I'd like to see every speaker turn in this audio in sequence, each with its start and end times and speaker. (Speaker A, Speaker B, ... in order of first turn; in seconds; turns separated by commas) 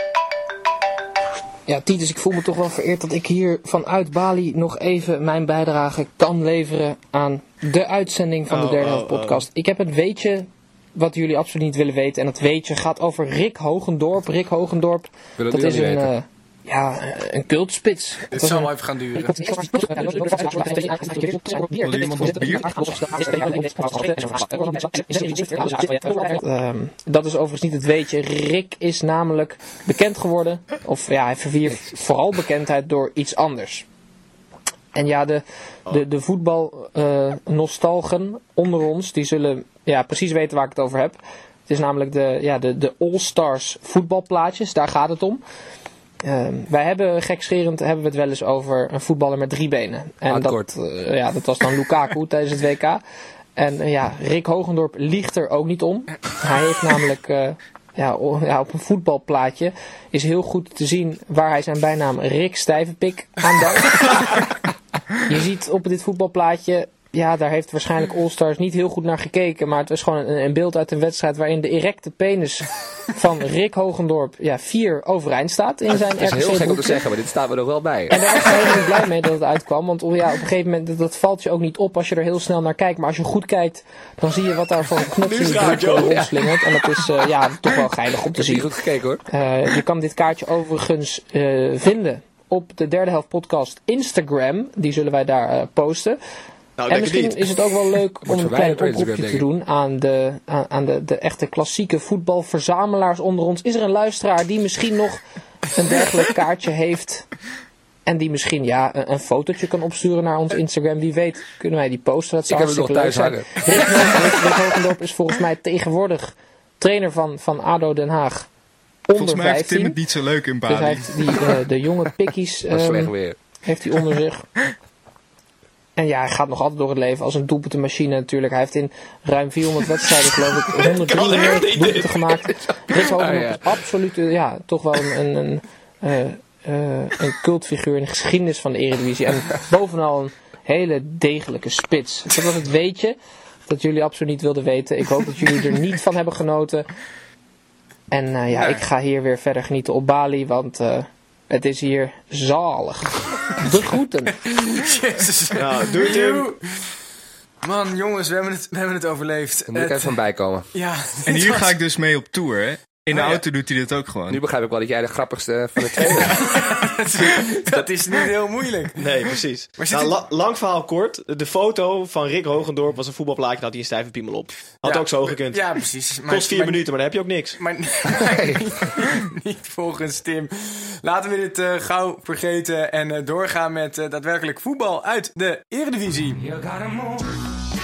Speaker A: 1.7-33.9, Speaker B: 8.5-9.5, Speaker C: 15.4-16.1, Speaker D: 18.3-19.5, Speaker E: 21.8-22.9, Speaker A: 35.0-45.4, Speaker A: 46.2-53.0, Speaker C: 50.3-50.7, Speaker A: 53.6-64.5, Speaker A: 65.2-77.0, Speaker C: 75.9-78.8, Speaker A: 78.1-88.7, Speaker B: 85.2-86.4, Speaker C: 86.0-86.3, Speaker C: 88.4-89.2, Speaker A: 89.3-96.2, Speaker B: 96.8-97.5, Speaker A: 96.9-105.2, Speaker C: 98.2-99.5, Speaker A: 105.7-107.3, Speaker A: 108.1-118.5, Speaker C: 112.5-114.0, Speaker A: 119.1-120.0, Speaker E: 119.2-121.5, Speaker A: 120.7-123.1, Speaker C: 122.7-123.4, Speaker A: 123.7-124.5, Speaker A: 126.0-146.9, Speaker B: 130.8-132.4, Speaker B: 133.0-133.5, Speaker D: 133.2-133.6, Speaker A: 148.1-154.4, Speaker D: 148.5-148.8, Speaker D: 154.5-156.9, Speaker B: 155.6-156.5, Speaker D: 157.6-160.1, Speaker C: 159.7-160.7, Speaker D: 160.7-161.8, Speaker E: 161.3-164.4, Speaker D: 163.1-163.4, Speaker C: 164.3-166.4, Speaker D: 166.1-169.0, Speaker B: 169.0-175.7, Speaker D: 169.8-170.1, Speaker D: 174.8-176.8, Speaker B: 176.3-177.6, Speaker D: 177.6-186.5, Speaker C: 178.2-178.6